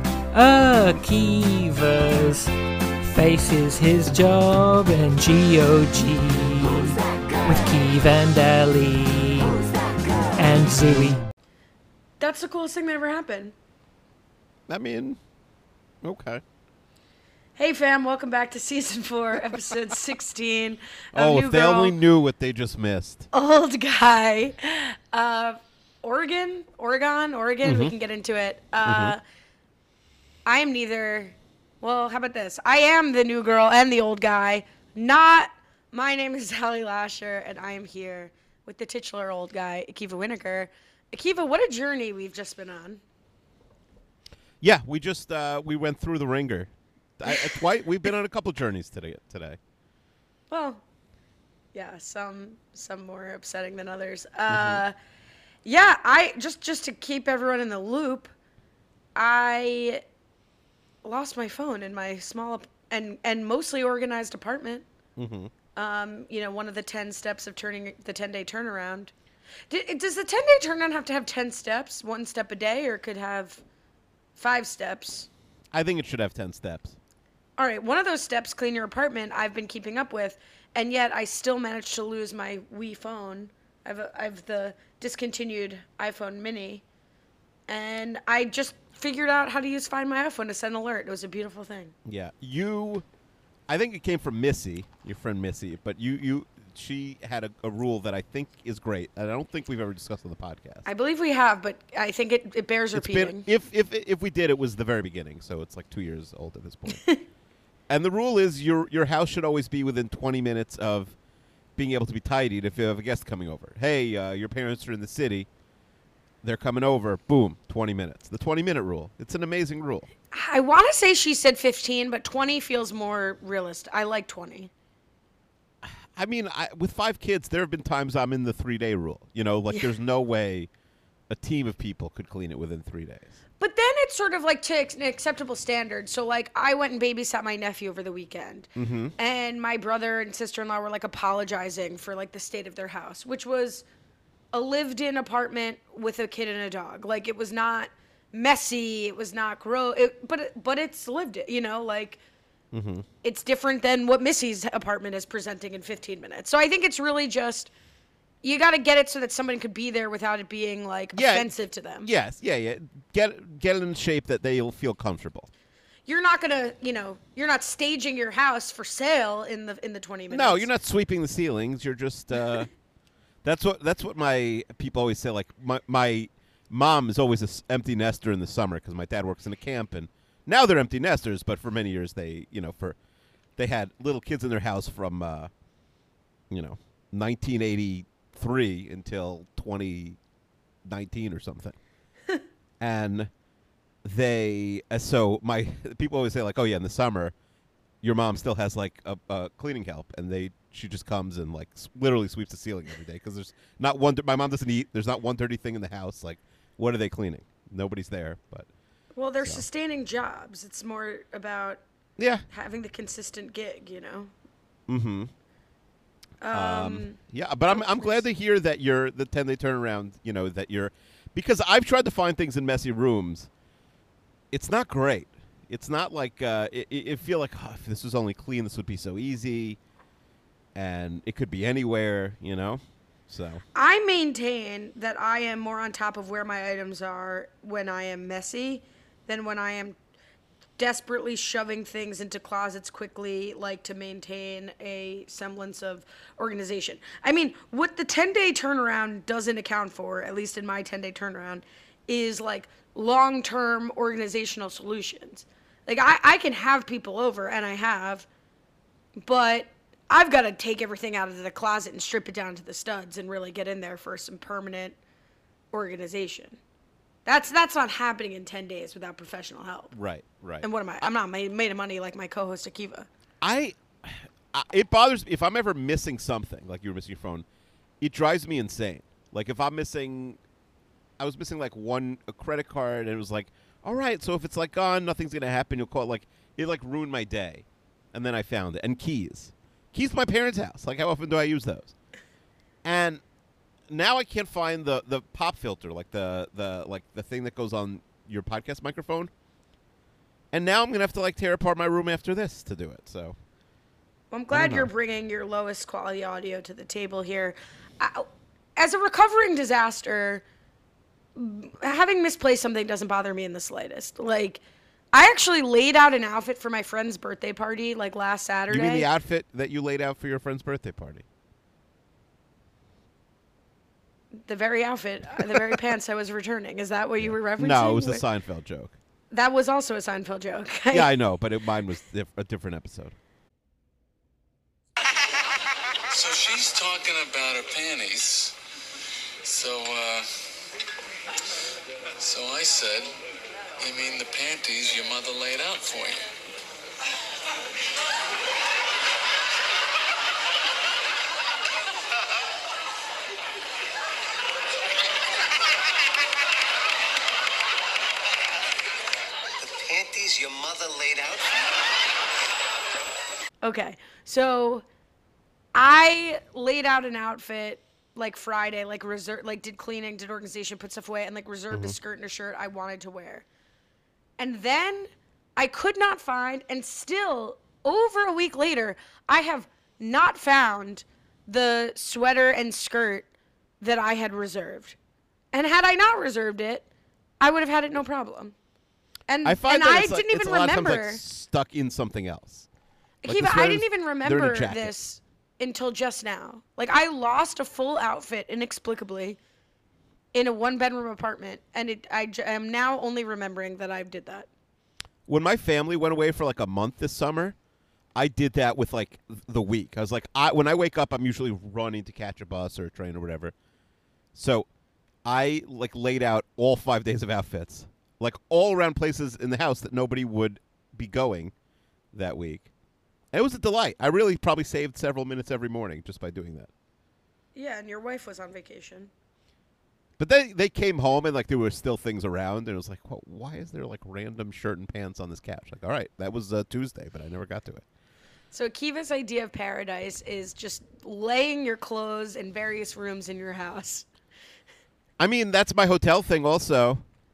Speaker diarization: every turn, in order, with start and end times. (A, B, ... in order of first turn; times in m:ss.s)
0:00.3-0:02.5 A
0:03.0-0:09.6 A
0:10.4-0:11.2 A
0:12.2-0:13.5 B
0:14.7-0:15.2 C
0:16.0-0:16.4 C
0:17.6-0:22.0 B
0:21.2-0:23.3 C
0:23.3-0:29.2 B
0:27.6-0:27.9 C
0:28.8-0:29.2 C
0:30.4-0:43.0 B
0:44.6-0:49.6 C
0:47.3-0:47.6 B
0:50.5-0:50.8 B
0:51.7-0:55.0 B
0:54.5-0:54.8 C
0:55.6-0:58.3 B
0:59.2-1:00.0 B
1:01.0-1:04.9 B
1:05.2-1:05.5 C
1:05.8-1:09.1 B
1:09.7-1:13.6 B
1:14.4-1:15.3 B
1:15.7-1:17.0 C
1:17.6-1:26.8 B
1:27.7-1:31.9 B
1:32.0-1:33.0 C
1:33.7-1:40.8 C
1:40.8-1:43.5 B
1:42.9-1:47.0 C
1:46.9-1:47.2 B
1:47.9-1:51.2 C
1:51.8-1:55.5 C
1:56.4-2:00.1 C
2:00.3-2:04.7 B
2:05.8-2:10.7 C
2:11.3-2:13.4 C
2:13.6-2:23.8 B
2:18.8-2:19.2 C
2:24.5-2:32.2 B
2:32.7-2:33.1 C
2:33.2-2:37.7 B
2:38.4-2:42.1 B
2:41.1-2:41.5 C
2:42.0-2:45.5 C
2:46.1-2:50.7 B
2:50.3-2:52.7 C
2:53.4-3:03.0 C
3:03.6-3:05.5 C
3:06.5-3:10.2 C
3:10.8-3:11.8 C
3:12.8-3:13.3 C
3:14.0-3:17.4 C
3:18.0-3:28.7 C
3:29.2-3:31.8 B
3:32.2-3:32.4 C
3:32.5-3:34.3 B
3:34.9-3:35.3 C
3:36.4-3:37.2 B
3:36.5-3:43.5 C
3:37.7-3:38.2 B
3:44.5-3:49.8 C
3:50.8-3:53.6 C
3:53.8-4:00.0 B
4:00.8-4:18.3 B
4:19.2-4:25.0 B
4:25.7-4:26.6 B
4:27.2-4:29.9 B
4:29.9-4:31.1 C
4:30.6-4:33.1 B
4:33.4-4:37.4 C
4:38.0-4:40.4 C
4:41.2-4:51.9 C
4:52.8-4:53.2 C
4:53.9-4:59.3 C
5:00.5-5:03.4 C
5:04.3-5:10.4 B
5:04.5-5:04.9 C
5:11.4-5:14.6 B
5:15.1-5:19.1 B
5:18.7-5:21.2 C
5:24.4-5:28.2 B
5:25.4-5:25.8 C
5:27.2-5:29.0 C
5:29.3-5:31.1 B
5:30.9-5:33.2 C
5:36.1-5:38.6 D
5:39.4-5:40.4 D
5:42.2-5:43.1 D
5:43.8-5:46.3 D
5:59.6-6:01.7 E
6:03.6-6:04.9 B
6:05.7-6:13.4 B
6:14.4-6:23.3 B
6:23.8-6:25.0 B
6:25.5-6:26.9 B
6:27.4-6:28.6 B
6:29.3-6:31.2 B
6:29.4-6:32.7 C
6:33.2-6:39.4 B
6:33.2-6:35.0 C
6:40.3-6:44.5 B
6:45.3-6:47.6 C
6:48.2-6:53.5 C
6:54.3-6:54.7 C
6:55.2-7:01.5 C
7:02.1-7:02.7 C
7:03.3-7:06.7 C
7:07.6-7:09.1 B
7:10.2-7:17.8 C
7:18.5-7:24.1 B
7:25.2-7:27.0 C